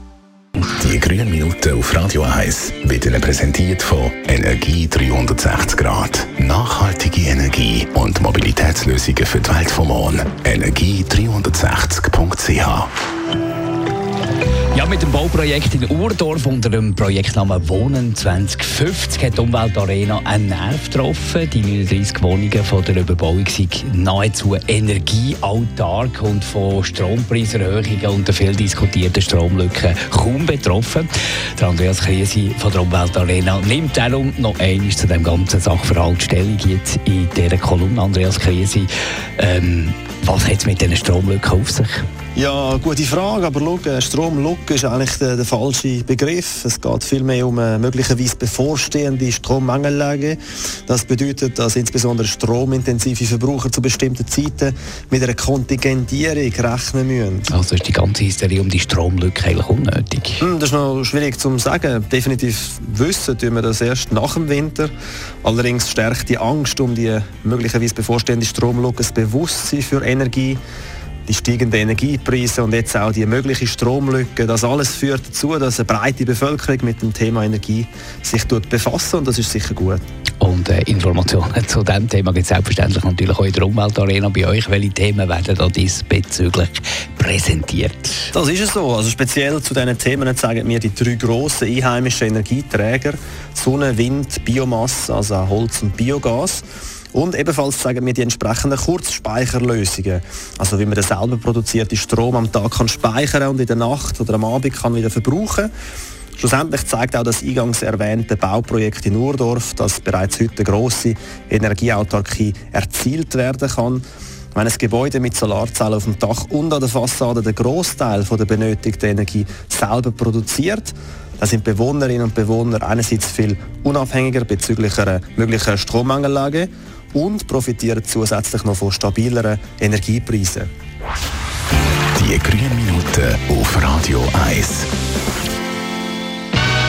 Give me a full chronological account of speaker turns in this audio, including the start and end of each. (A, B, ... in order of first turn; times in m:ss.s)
0:00.7-0:12.9 A
0:14.7-0:42.0 B
0:42.3-0:57.5 C
0:57.5-1:00.4 B
1:00.4-1:04.9 C
1:05.4-1:10.6 C
1:11.2-1:20.0 C
1:20.4-1:28.3 B
1:28.3-1:45.7 C
1:46.4-1:54.0 C
1:54.5-2:10.7 C
2:12.1-2:14.9 A